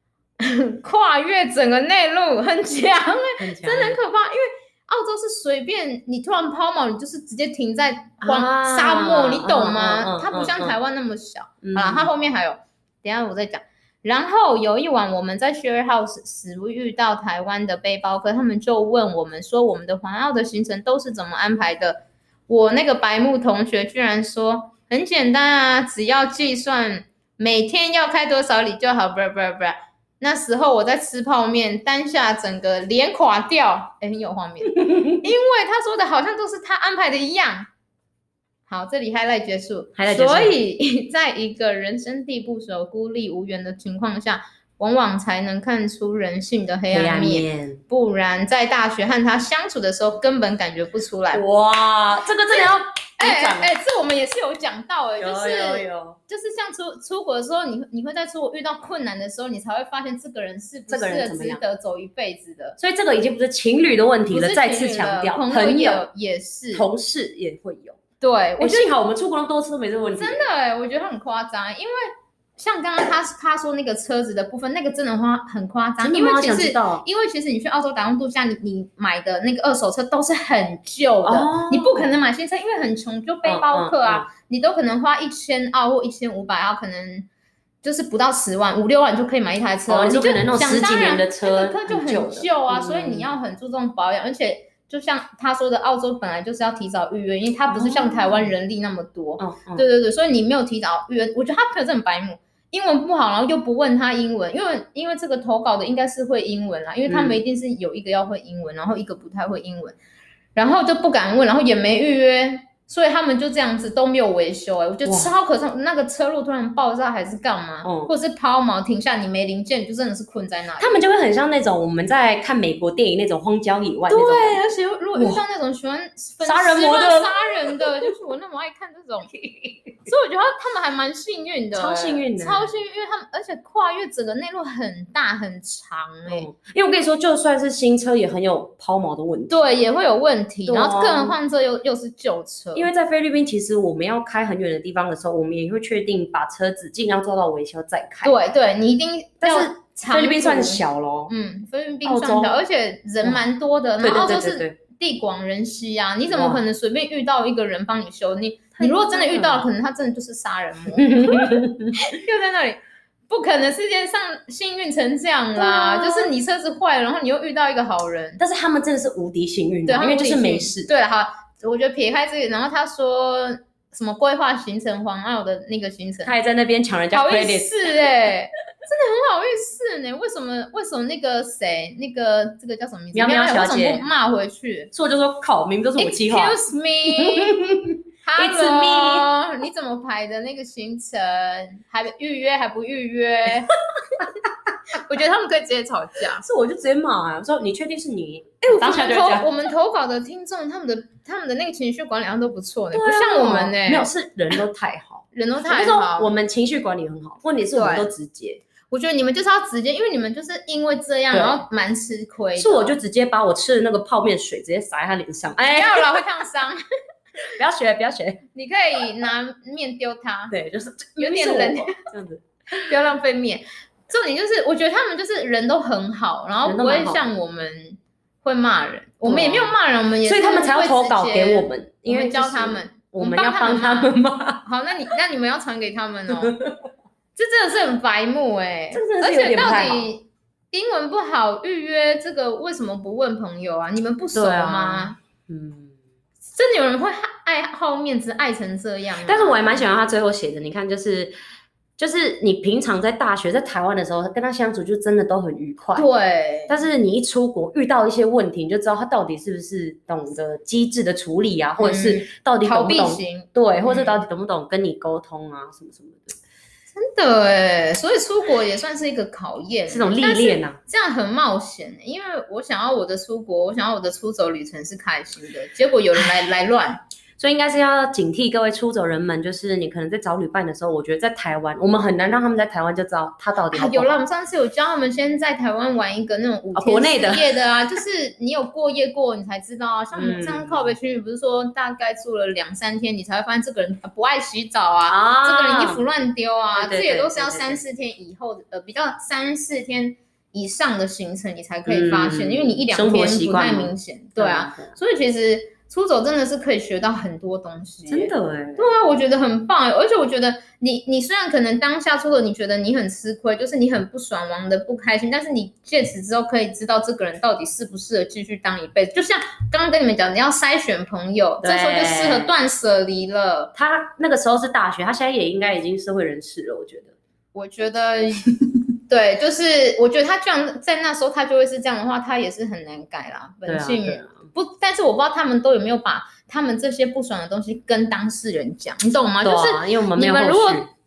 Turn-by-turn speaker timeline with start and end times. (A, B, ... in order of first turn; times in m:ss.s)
0:00.4-0:37.7 A
0:03.4-0:04.0 B
0:08.2-0:10.8 B
0:11.6-0:12.1 B
0:34.8-0:35.2 B
0:38.7-0:51.4 A
0:40.0-0:40.5 B
0:46.9-0:47.8 B
0:51.3-0:53.7 B
0:53.2-1:02.8 A
0:55.2-0:56.2 B
1:00.9-1:01.6 B
1:02.8-1:06.1 B
1:04.3-1:06.9 A
1:06.7-1:08.0 B
1:08.2-1:08.9 A
1:08.6-1:10.4 B
1:10.2-1:27.3 A
1:16.0-1:17.0 B
1:21.2-1:22.1 B
1:23.4-1:24.3 B
1:27.8-1:50.0 A
1:29.9-1:33.3 B
1:37.7-1:38.5 B
1:39.4-1:39.8 B
1:47.1-1:47.4 B
1:50.6-2:01.0 A
1:55.0-1:55.3 B
1:57.8-1:58.1 B
2:00.8-2:04.6 B
2:04.1-2:09.3 A
2:05.1-2:05.4 B
2:06.4-2:07.9 B
2:09.3-2:09.9 B
2:10.0-2:16.5 A
2:11.7-2:12.7 B
2:16.3-2:19.6 B
2:19.5-2:22.9 A
2:20.7-2:21.4 B
2:22.7-2:28.4 B
2:28.2-2:48.4 A
2:29.4-2:31.3 B
2:32.0-2:32.6 B
2:34.0-2:34.8 B
2:36.3-2:36.6 B
2:38.8-2:39.6 B
2:40.9-2:42.0 B
2:45.5-2:46.3 B
2:48.4-2:50.9 B
2:49.9-2:56.3 A
2:56.2-2:57.8 B
2:57.1-3:04.9 A
3:03.1-3:04.1 B
3:04.9-3:09.3 B
3:06.0-3:07.6 A
3:08.2-3:13.7 A
3:14.9-3:16.4 A
3:16.4-3:19.5 B
3:18.6-3:24.1 A
3:22.9-3:28.6 B
3:25.3-3:26.3 A
3:27.7-3:28.1 A
3:28.9-3:32.9 A
3:31.3-3:31.6 B
3:32.6-3:36.2 B
3:35.6-3:36.8 A
3:37.5-3:38.4 B
3:38.5-3:40.6 A
3:40.5-3:42.9 B
3:41.2-3:42.0 A
3:42.8-3:56.6 A
3:46.6-3:47.2 B
3:49.2-3:54.6 B
3:56.3-3:56.8 B
3:57.4-4:05.2 A
3:58.9-4:00.1 B
4:04.3-4:06.0 B
4:06.5-4:09.8 A
4:09.2-4:11.3 B
4:12.0-4:16.1 B
4:15.9-4:16.8 A
4:16.7-4:26.4 B
4:21.8-4:24.2 A
4:26.9-4:37.0 A
4:29.9-4:30.8 B
4:37.4-4:44.1 B
4:43.7-5:23.7 A
4:46.7-4:47.5 B
4:50.1-4:50.9 B
4:55.1-4:56.0 B
4:56.7-4:57.8 B
5:01.9-5:04.9 B
5:08.1-5:08.9 B
5:21.6-5:22.5 B
5:23.7-5:27.1 B
5:27.5-5:28.5 A
5:29.1-5:40.9 A
5:33.7-5:34.4 B
5:39.4-5:40.9 B